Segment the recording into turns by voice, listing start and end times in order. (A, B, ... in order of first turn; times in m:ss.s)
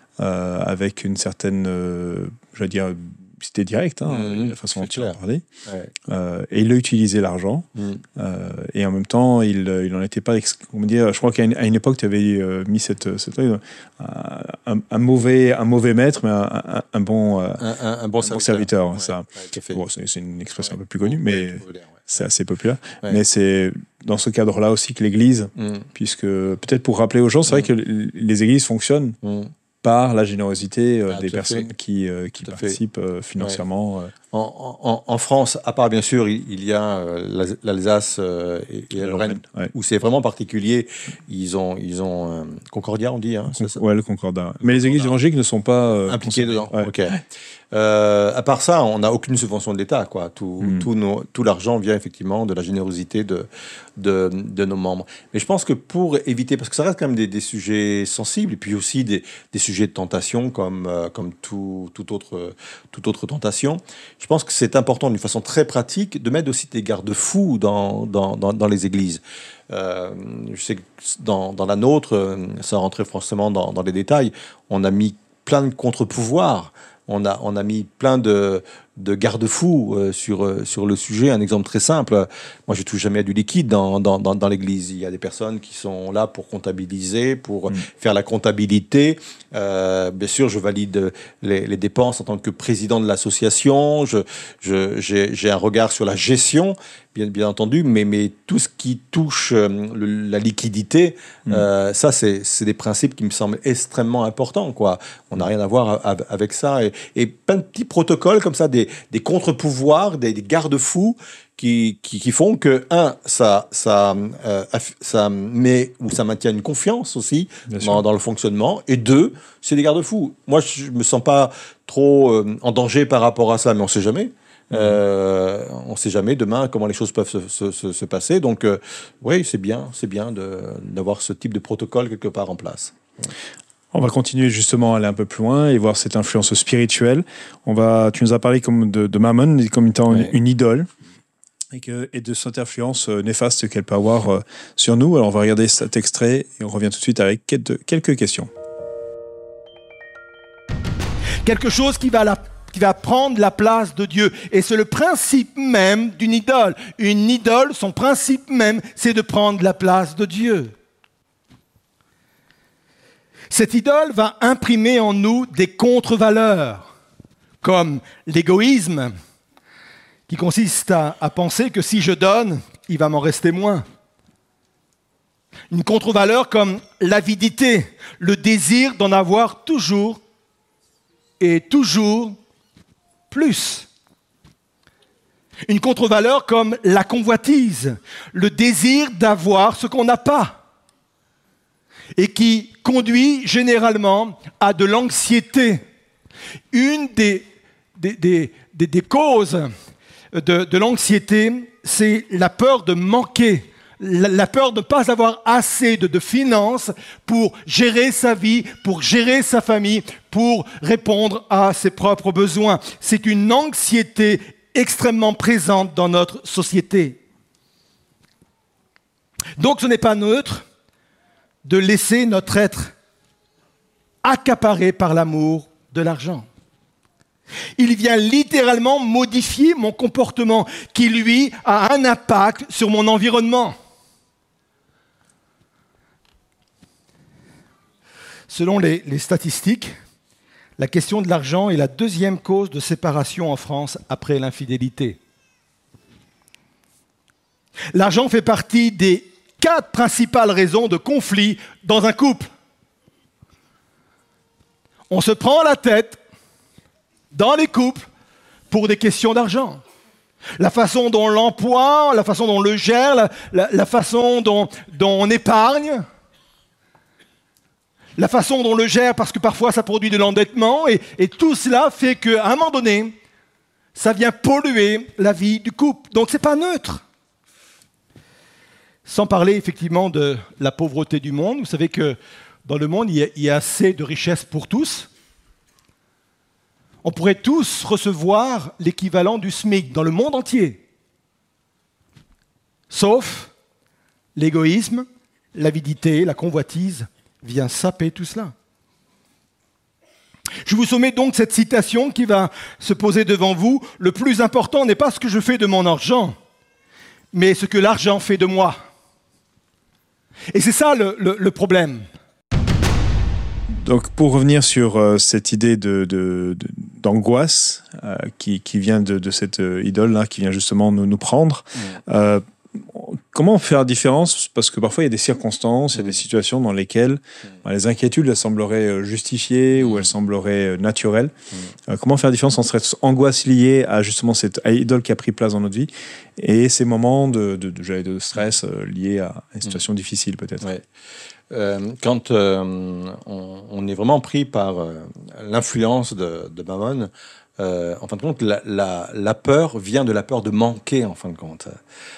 0:00.2-0:05.4 A
0:04.1-0:05.9 B
0:06.1-0:17.6 A
0:07.8-0:08.0 B
0:17.6-0:19.8 B
0:18.2-0:29.2 A
0:20.7-0:22.1 B
0:25.6-0:25.9 B
0:29.2-0:29.5 B
0:29.8-0:34.1 A
0:31.1-0:31.7 B
0:32.4-0:32.8 B
0:34.3-0:43.8 B
0:39.0-0:39.7 A
0:43.5-0:46.9 A
0:44.6-0:45.1 B
0:46.1-0:47.2 B
0:47.7-0:53.5 B
0:50.6-0:50.9 A
0:54.0-2:13.3 B
1:57.7-1:58.0 A
2:04.7-2:05.0 A
2:13.9-2:20.9 A
2:21.7-2:28.5 A
2:31.4-2:40.7 C
2:43.5-2:46.9 C
2:47.6-2:49.1 C
2:50.3-2:53.8 C
2:55.7-3:00.2 C
3:01.4-3:02.4 C
3:03.3-3:03.9 C
3:05.7-3:10.6 C
3:12.2-3:15.8 C
3:16.7-3:19.7 C
3:20.3-3:37.2 C
3:39.6-3:40.7 C
3:41.6-3:42.9 C
3:44.2-3:46.5 C
3:47.8-3:53.8 C
3:58.5-4:00.0 C
4:00.8-4:05.2 C
4:07.9-4:12.5 C
4:15.1-4:16.2 C
4:17.3-4:18.1 C
4:18.7-4:19.8 C
4:20.6-4:26.1 C
4:28.2-4:33.1 C
4:34.0-4:37.0 C
4:39.1-4:45.1 C
4:47.0-4:50.8 C
4:52.9-4:53.5 C
4:54.4-4:58.5 C
5:00.6-5:06.4 C
5:07.3-5:08.8 C
5:10.5-5:12.1 C
5:13.7-5:31.3 A
5:31.9-5:40.7 A
5:41.5-5:51.8 B